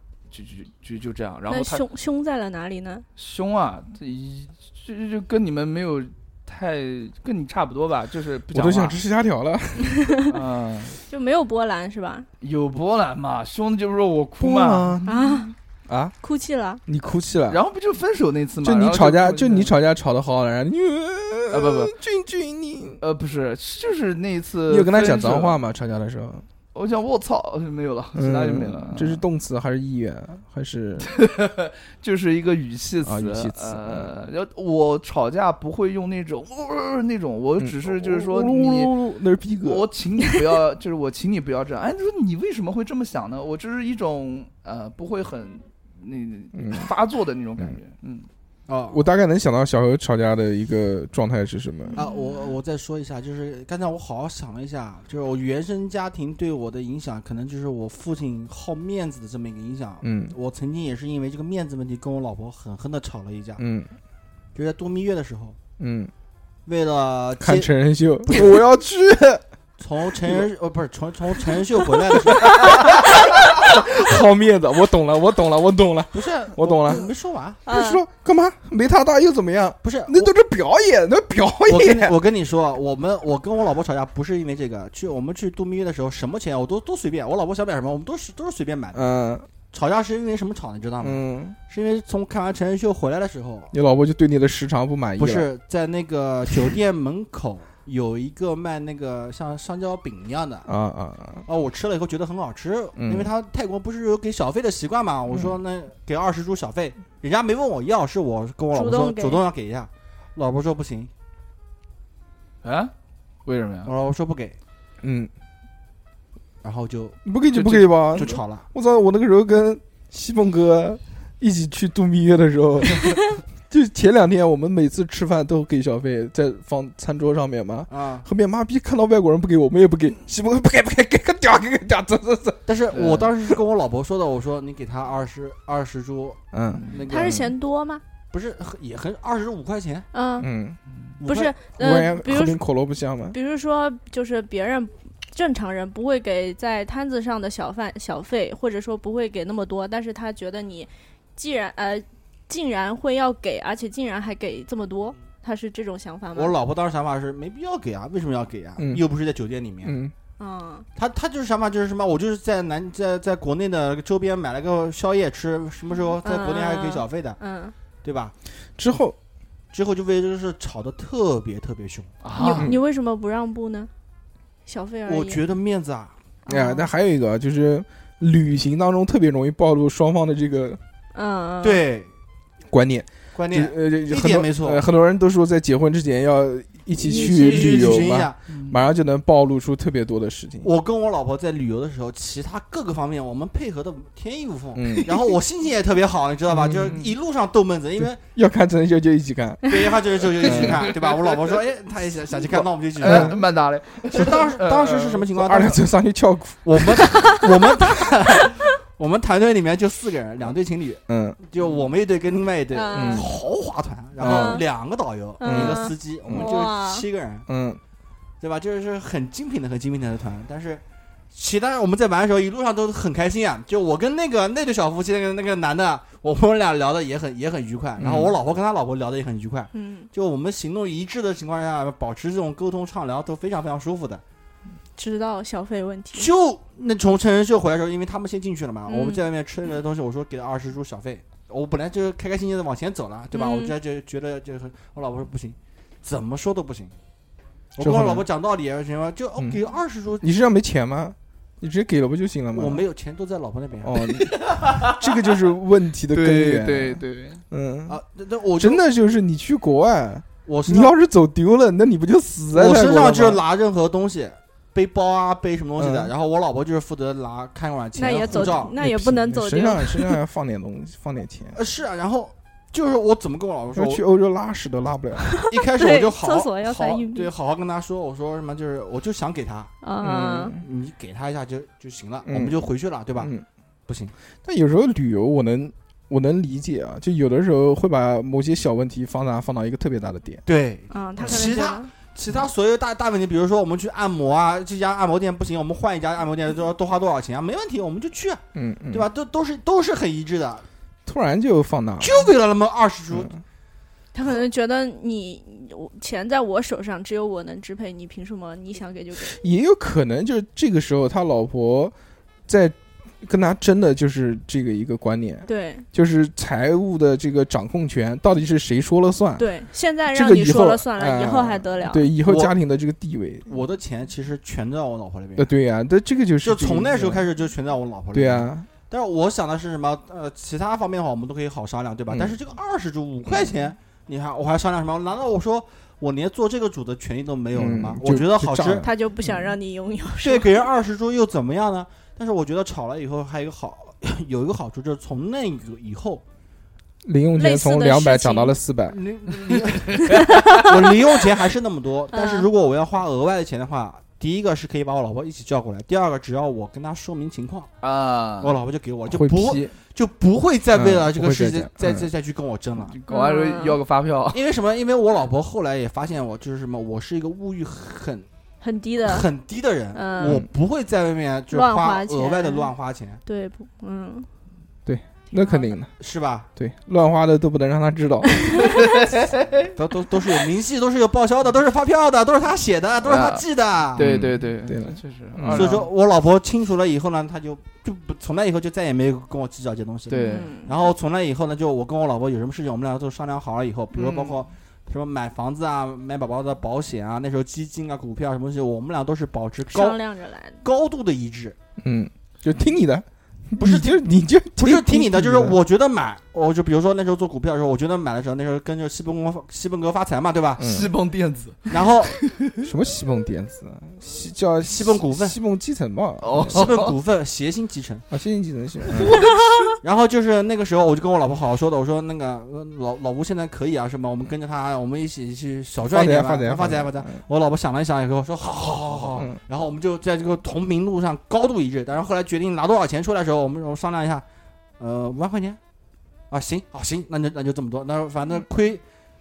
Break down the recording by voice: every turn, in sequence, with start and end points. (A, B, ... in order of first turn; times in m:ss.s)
0:00.3-0:01.8 A
0:01.5-0:03.1 B
0:03.2-0:09.0 A
0:08.5-0:10.0 C
0:09.8-0:10.3 B
0:10.3-0:11.0 A
0:11.1-0:12.3 B
0:12.4-0:15.0 A
0:14.4-0:16.1 C
0:15.1-0:15.5 B
0:16.2-0:16.8 B
0:16.9-0:17.6 C
0:17.5-0:19.7 A
0:18.6-0:23.0 C
0:21.5-0:21.9 A
0:23.0-0:25.6 A
0:24.7-0:26.5 C
0:26.7-0:29.2 A
0:28.2-0:31.1 C
0:31.0-0:38.9 A
0:33.0-0:34.1 C
0:37.6-0:39.9 C
0:39.6-0:48.3 A
0:46.5-0:46.9 C
0:48.7-0:49.0 D
0:48.9-0:52.0 C
0:51.9-0:52.5 B
0:52.0-1:03.6 D
1:00.0-1:00.3 C
1:03.6-1:03.9 C
1:04.6-1:05.6 D
1:05.8-1:06.1 C
1:06.7-1:07.7 D
1:07.4-1:09.4 C
1:09.8-1:13.0 D
1:10.2-1:10.5 C
1:12.1-1:17.1 C
1:16.1-1:17.6 D
1:17.7-1:18.0 B
1:17.7-1:22.2 C
1:19.8-1:20.3 D
1:21.7-1:29.0 D
1:28.9-1:29.5 C
1:29.7-1:33.7 D
1:31.0-1:31.6 C
1:33.7-1:35.5 C
1:35.2-1:40.7 D
1:40.7-1:41.5 C
1:41.5-1:51.1 D
1:43.0-1:43.3 C
1:45.3-1:45.6 C
1:48.7-1:49.4 B
1:52.6-1:52.9 A
1:53.4-1:53.9 A
1:53.8-1:54.6 D
1:55.0-1:55.3 C
1:56.6-1:57.2 D
1:57.2-2:12.8 C
1:57.5-1:58.0 A
1:58.1-1:58.7 D
2:07.9-2:08.3 D
2:12.7-2:17.4 D
2:12.9-2:13.2 A
2:16.5-2:17.5 C
2:16.7-2:17.0 A
2:17.1-2:18.0 B
2:18.3-2:20.1 D
2:20.1-2:20.5 B
2:20.4-2:20.8 C
2:21.2-2:21.6 D
2:21.3-2:22.6 B
2:21.8-2:23.4 C
2:23.3-2:36.6 B
2:36.4-2:40.0 D
2:38.8-2:39.0 C
2:39.8-2:40.1 C
2:40.4-2:40.9 B
2:41.0-2:47.4 D
2:46.2-2:47.8 B
2:48.0-2:48.3 D
2:48.8-2:49.2 C
2:49.7-2:52.1 D
2:52.2-2:52.7 A
2:52.4-2:53.9 B
2:54.7-2:55.4 B
2:55.1-2:56.1 D
2:56.5-2:56.9 B
2:56.5-3:00.8 C
3:01.1-3:01.8 B
3:01.6-3:02.1 D
3:02.7-3:10.7 C
3:03.3-3:04.8 D
3:07.0-3:08.1 B
3:07.1-3:08.4 D
3:08.5-3:08.8 A
3:10.6-3:18.2 D
3:14.8-3:15.2 C
3:16.5-3:17.1 C
3:18.0-3:20.9 C
3:19.7-3:23.4 D
3:22.5-3:25.2 A
3:23.0-3:23.4 C
3:24.1-3:25.8 D
3:25.3-3:27.4 C
3:26.6-3:37.5 D
3:31.1-3:31.4 C
3:32.7-3:33.3 B
3:32.9-3:33.3 C
3:34.2-3:34.6 C
3:34.2-3:34.6 B
3:35.4-3:37.0 B
3:35.4-3:36.5 C
3:37.5-3:37.8 C
3:38.4-3:54.2 D
3:48.0-3:48.4 C
3:49.7-3:50.1 B
3:55.0-3:56.3 B
3:56.1-4:07.0 D
3:58.9-3:59.3 B
4:03.3-4:03.8 B
4:07.8-4:10.2 D
4:07.8-4:08.3 C
4:10.2-4:12.8 C
4:12.5-4:14.1 D
4:13.8-4:18.0 C
4:14.5-4:14.9 A
4:16.1-4:17.4 A
4:17.9-4:18.8 D
4:18.6-4:23.4 C
4:20.5-4:20.9 D
4:22.5-4:28.7 D
4:25.8-4:26.1 C
4:28.0-4:30.2 B
4:28.3-4:31.6 C
4:31.5-4:34.0 D
4:33.7-4:35.4 C
4:35.3-4:37.3 B
4:35.5-4:39.7 D
4:39.8-4:40.6 B
4:40.0-4:40.6 C
4:40.6-4:43.3 D
4:42.3-4:43.4 C
4:43.9-4:44.1 D
4:44.4-4:50.4 C
4:50.5-5:00.6 D
4:50.9-4:51.9 B
4:58.6-4:59.1 C
5:01.1-5:02.3 C
5:02.0-5:03.4 D
5:04.1-5:09.4 B
5:09.3-5:12.0 C
5:12.5-5:19.5 C
5:15.5-5:15.9 B
5:19.4-5:22.1 B
5:20.1-5:23.5 C
5:22.2-5:22.5 D
5:23.5-5:25.5 D
5:25.4-5:27.3 C
5:26.4-5:38.9 D
5:28.1-5:28.7 C
5:32.1-5:32.4 C
5:37.5-5:38.9 C
5:38.8-5:40.7 B
5:40.2-5:46.2 D
5:47.0-5:49.0 C
5:47.4-5:48.6 B
5:48.9-5:57.7 D
5:49.9-5:50.4 A
5:50.0-5:51.1 B
5:52.1-5:52.5 B
5:57.8-5:58.6 A
5:58.4-6:03.0 D
5:59.1-5:59.8 C
6:00.7-6:02.1 C
6:02.8-6:04.4 A
6:03.1-6:03.8 B
6:04.3-6:08.3 D
6:08.6-6:09.3 B
6:09.0-6:13.2 D
6:09.9-6:10.4 B
6:11.5-6:12.7 B
6:13.3-6:14.3 B
6:14.9-6:15.9 C
6:15.3-6:15.7 B
6:16.0-6:16.5 D
6:16.6-6:18.6 C
6:18.6-6:19.7 A
6:19.8-6:24.2 D
6:23.0-6:25.9 A
6:24.0-6:25.8 C
6:25.5-6:40.0 D
6:30.1-6:30.5 A
6:30.3-6:30.9 B
6:34.0-6:34.3 C
6:39.7-6:40.6 B
6:40.6-6:41.6 D
6:41.8-6:45.6 C
6:43.6-6:44.1 D
6:44.6-6:50.6 D
6:50.6-6:50.9 C
6:50.6-6:52.5 A
6:51.7-6:52.2 D
6:52.6-6:56.7 C
6:54.6-6:55.4 D
6:56.2-6:56.9 A
6:56.5-6:58.0 D
6:58.1-6:59.2 C
6:58.9-6:59.7 A
6:59.8-7:14.2 D
7:05.8-7:07.2 C
7:09.0-7:09.4 C
7:14.8-7:15.6 D
7:16.3-7:18.8 D